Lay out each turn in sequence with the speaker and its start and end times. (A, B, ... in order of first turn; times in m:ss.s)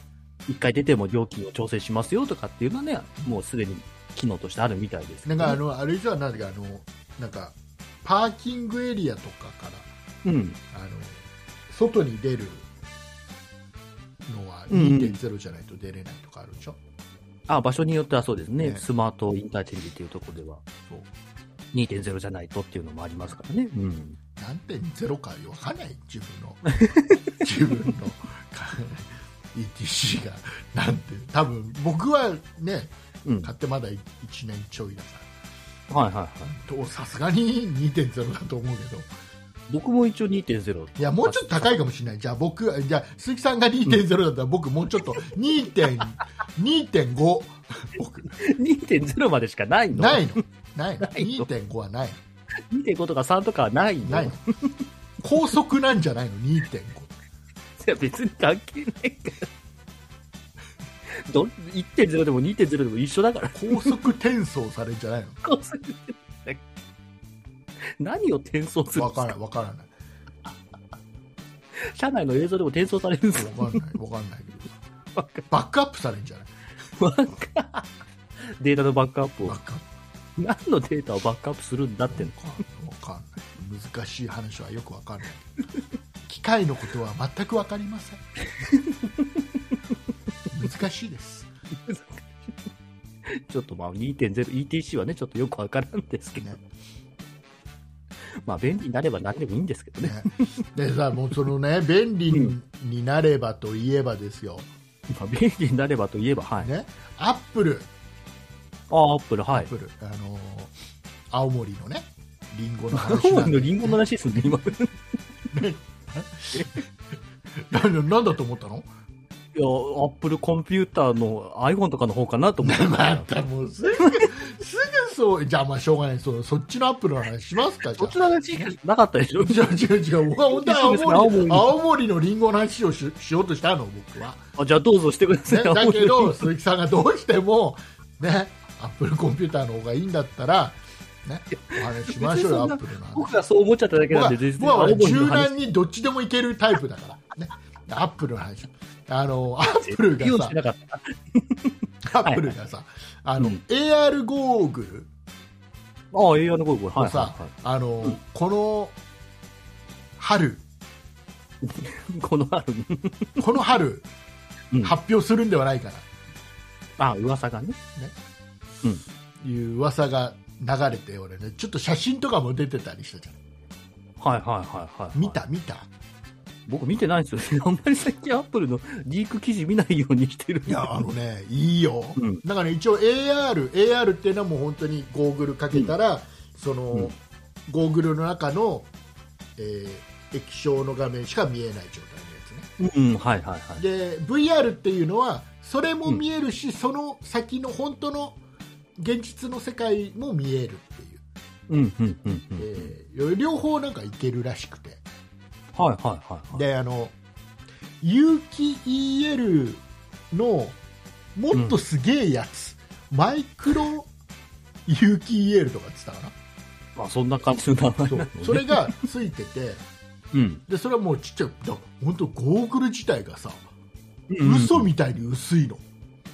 0:00.5-0:05.6 A
0:05.2-0:09.9 B
0:10.2-0:10.6 A
0:10.7-0:12.7 B
0:14.2-0:16.8 B
0:14.7-0:15.2 A
0:17.5-0:20.6 A
0:18.6-0:18.8 B
0:21.7-0:24.2 A
0:24.4-0:26.8 B
0:26.8-0:27.3 A
0:27.4-0:32.9 B
0:33.2-0:33.5 A
0:33.4-0:35.3 B
0:35.9-0:36.6 A
0:36.5-0:39.1 B
0:39.7-0:41.8 A
0:41.0-0:48.3 B
0:48.3-0:50.4 A
0:49.9-0:52.2 B
0:51.0-0:51.5 A
0:52.7-0:54.4 A
0:54.0-0:54.4 B
0:55.2-0:57.1 B
0:57.8-0:59.5 A
1:01.1-1:04.0 A
1:03.5-1:05.4 B
1:05.4-1:06.6 A
1:08.0-1:09.3 A
1:08.9-1:09.9 B
1:11.8-1:13.8 A
1:13.3-1:14.8 B
1:15.1-1:15.4 A
1:15.5-1:16.5 B
1:17.0-1:17.9 A
1:18.6-1:19.6 A
1:19.4-1:19.8 B
1:20.4-1:22.3 A
1:22.1-1:25.5 B
1:26.2-1:28.2 B
1:28.6-1:29.4 A
1:30.5-1:31.5 B
1:31.8-1:32.3 A
1:33.3-1:36.6 A
1:38.4-1:40.6 A
1:40.0-1:44.7 B
1:45.1-1:46.7 A
1:46.6-1:47.9 B
1:48.9-1:49.7 A
1:49.5-1:50.7 B
1:51.3-1:54.0 B
1:52.9-1:55.0 A
1:55.5-1:56.8 B
1:56.5-1:56.8 A
1:57.6-1:58.9 B
1:59.5-2:03.3 A
2:02.6-2:08.2 B
2:04.0-2:04.3 A
2:07.9-2:09.8 A
2:09.4-2:14.4 B
2:10.4-2:11.7 A
2:14.6-2:16.5 A
2:15.5-2:23.3 B
2:21.5-2:25.7 A
2:24.1-2:30.6 B
2:29.7-2:32.5 A
2:32.0-2:35.1 B
2:36.1-2:37.5 A
2:37.0-2:39.0 B
2:40.2-2:40.6 B
2:41.6-2:43.4 A
2:43.4-2:44.1 B
2:44.8-2:46.1 B
2:47.0-2:47.8 A
2:49.4-2:53.4 B
2:54.2-2:55.4 A
2:55.1-2:55.9 B
2:56.7-3:00.9 A
3:00.7-3:07.1 B
3:02.2-3:02.4 A
3:07.7-3:08.9 B
3:09.6-3:12.7 B
3:12.8-3:13.8 A
3:13.8-3:18.4 B
3:19.0-3:21.2 B
3:21.7-3:22.9 A
3:22.5-3:25.0 B
3:25.7-3:26.6 A
3:26.5-3:27.1 B
3:28.0-3:30.8 B
3:31.4-3:34.1 B
3:34.9-3:36.3 B
3:37.0-3:39.0 A
3:38.1-3:39.8 B
3:40.3-3:40.6 A
3:40.7-3:43.7 B
3:44.3-3:44.9 A
3:44.4-3:45.8 B